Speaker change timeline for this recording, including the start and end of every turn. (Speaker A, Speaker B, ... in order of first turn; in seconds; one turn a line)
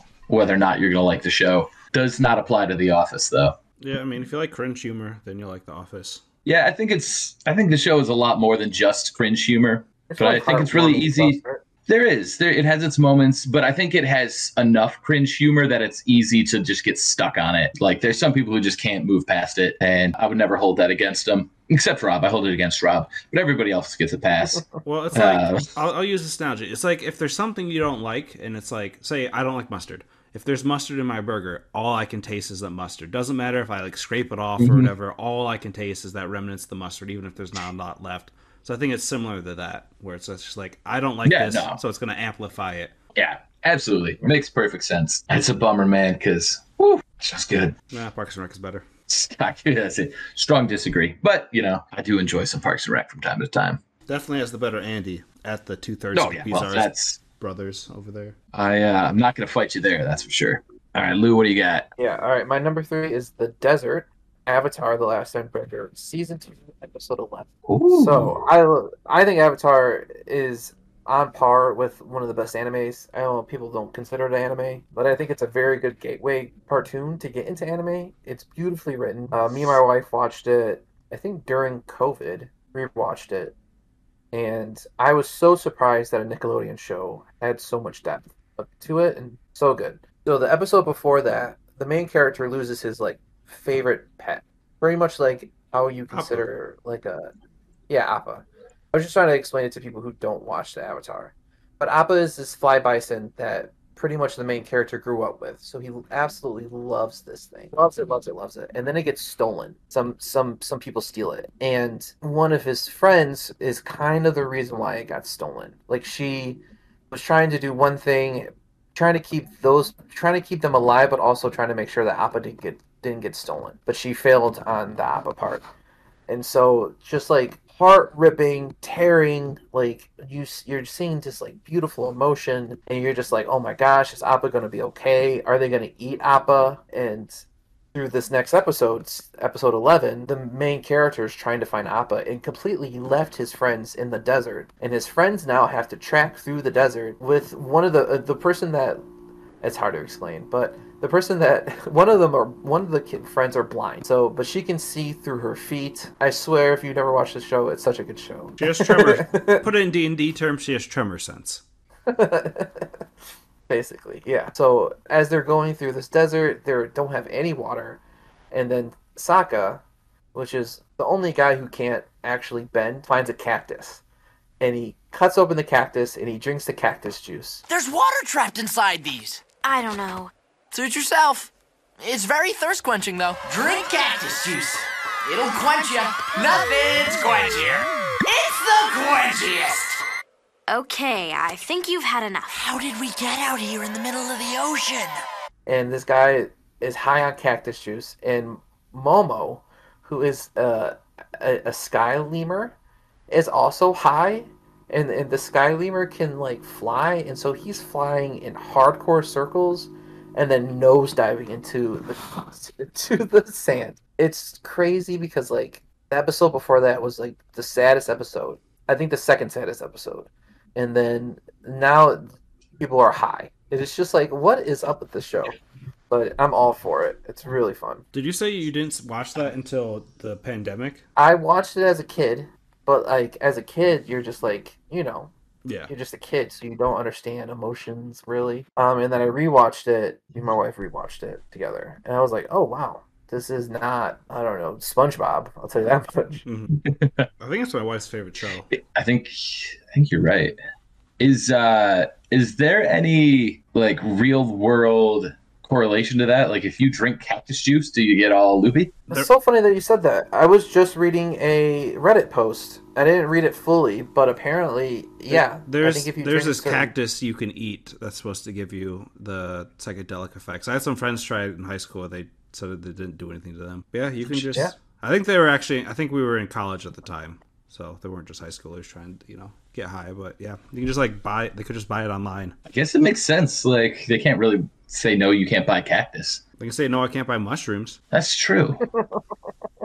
Speaker A: 0.3-3.5
Speaker B: 3.8-6.2
Speaker A: 6.5-25.7
Speaker C: 10.1-11.6
Speaker B: 24.8-42.9
Speaker A: 34.6-34.9
Speaker A: 41.2-41.8
Speaker A: 43.1-47.7
Speaker B: 47.9-48.9
Speaker A: 49.1-53.8
Speaker B: 54.1-58.3
Speaker A: 56.1-57.2
Speaker A: 58.5-61.9
Speaker C: 62.0-83.5
Speaker A: 67.7-68.3
Speaker C: 84.3-97.3
Speaker B: 96.1-96.5
Speaker C: 97.9-116.6
Speaker C: 117.1-125.6
Speaker C: 126.3-137.4
Speaker C: 137.9-149.0
Speaker C: 149.6-159.6
Speaker B: 158.6-161.6
Speaker C: 162.1-162.9
Speaker C: 163.7-168.0
Speaker C: 168.5-169.8
Speaker C: 170.3-174.0
Speaker C: 174.6-177.6
Speaker D: 177.8-179.2
Speaker E: 179.6-180.3
Speaker D: 180.7-181.2
Speaker D: 182.0-184.6
Speaker D: 185.3-187.8
Speaker D: 188.6-189.6
Speaker E: 190.7-192.6
Speaker C: 195.7-202.7
Speaker C: 203.3-225.6
Speaker C: 226.1-228.0
Speaker B: 228.1-231.0
Speaker C: 231.2-235.3
Speaker B: 235.6-235.9
Speaker C: 235.9-246.4
Speaker B: 246.4-246.8
Speaker A: 246.8-247.3
Speaker B: 247.4-248.7
Speaker A: 248.7-250.6
Speaker A: 251.2-258.9
Speaker C: 259.1-266.9
Speaker B: 265.3-282.6
Speaker C: 274.3-274.7
Speaker A: 282.7-286.4
Speaker B: 286.6-288.0
Speaker A: 288.1-288.8
Speaker C: 288.9-289.2